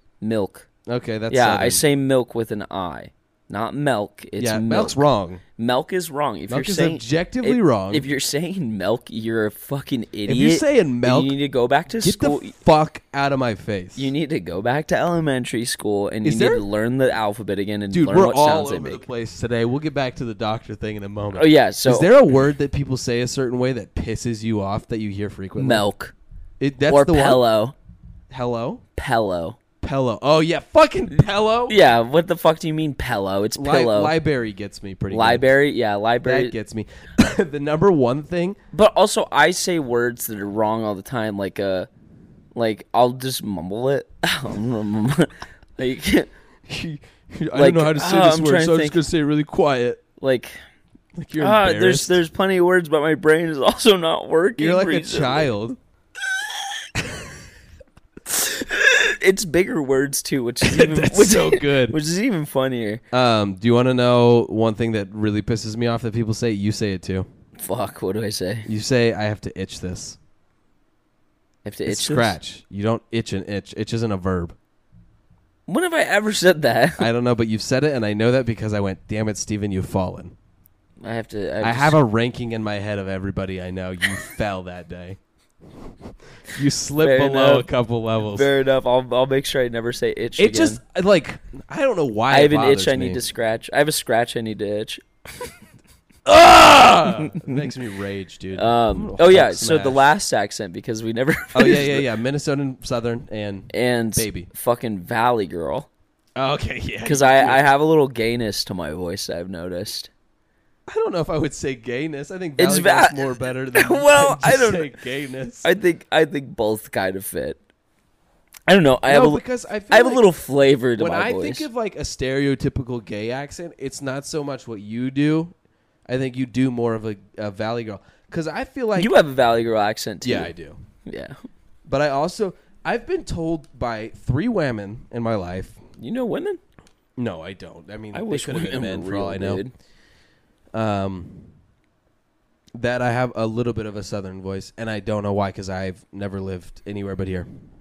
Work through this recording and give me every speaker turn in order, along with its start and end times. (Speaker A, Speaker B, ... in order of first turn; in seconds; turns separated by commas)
Speaker A: 0.2-0.7, Speaker B: 0.9-1.8, Speaker A: 1.3-5.0, Speaker B: 4.4-5.4, Speaker A: 5.6-12.5, Speaker B: 6.5-8.1, Speaker B: 10.2-11.3, Speaker B: 12.0-14.1, Speaker A: 13.9-19.0, Speaker B: 16.2-16.6, Speaker B: 17.9-25.8, Speaker A: 21.3-22.1, Speaker A: 25.6-26.1, Speaker B: 26.6-27.4, Speaker A: 26.9-27.7, Speaker B: 28.3-28.8, Speaker A: 28.9-29.6, Speaker B: 29.8-31.8, Speaker A: 31.7-34.1, Speaker B: 33.5-35.5, Speaker A: 35.1-36.5, Speaker B: 36.2-38.6, Speaker A: 38.7-41.9, Speaker A: 42.5-46.3, Speaker B: 46.7-50.0, Speaker A: 47.5-49.0, Speaker A: 50.2-50.5, Speaker B: 51.1-52.2, Speaker A: 51.4-55.5, Speaker B: 54.6-55.8, Speaker A: 58.3-63.0, Speaker B: 60.6-62.0, Speaker B: 63.1-67.3, Speaker A: 67.6-68.7, Speaker B: 68.7-70.2, Speaker A: 71.6-72.3, Speaker B: 71.8-74.5, Speaker A: 75.7-77.1, Speaker B: 77.0-80.3, Speaker A: 81.0-82.0, Speaker B: 81.6-85.2, Speaker B: 86.5-88.5, Speaker A: 87.0-87.7, Speaker A: 88.3-90.8, Speaker B: 90.4-93.2, Speaker A: 92.3-95.0, Speaker B: 96.2-100.0, Speaker A: 97.1-97.6, Speaker A: 98.5-102.1, Speaker B: 101.5-104.5, Speaker A: 103.7-105.9, Speaker B: 106.3-107.6, Speaker A: 107.0-110.1, Speaker B: 110.9-115.7, Speaker A: 112.6-114.9, Speaker A: 115.6-117.6, Speaker A: 118.7-121.7, Speaker B: 119.1-120.2, Speaker B: 121.0-125.5, Speaker B: 126.1-129.1, Speaker A: 128.9-130.5, Speaker B: 130.2-130.8, Speaker A: 131.1-131.3, Speaker B: 131.8-135.8, Speaker A: 136.0-136.6, Speaker B: 137.2-139.6, Speaker A: 138.1-139.7, Speaker B: 140.7-141.5, Speaker B: 142.8-147.5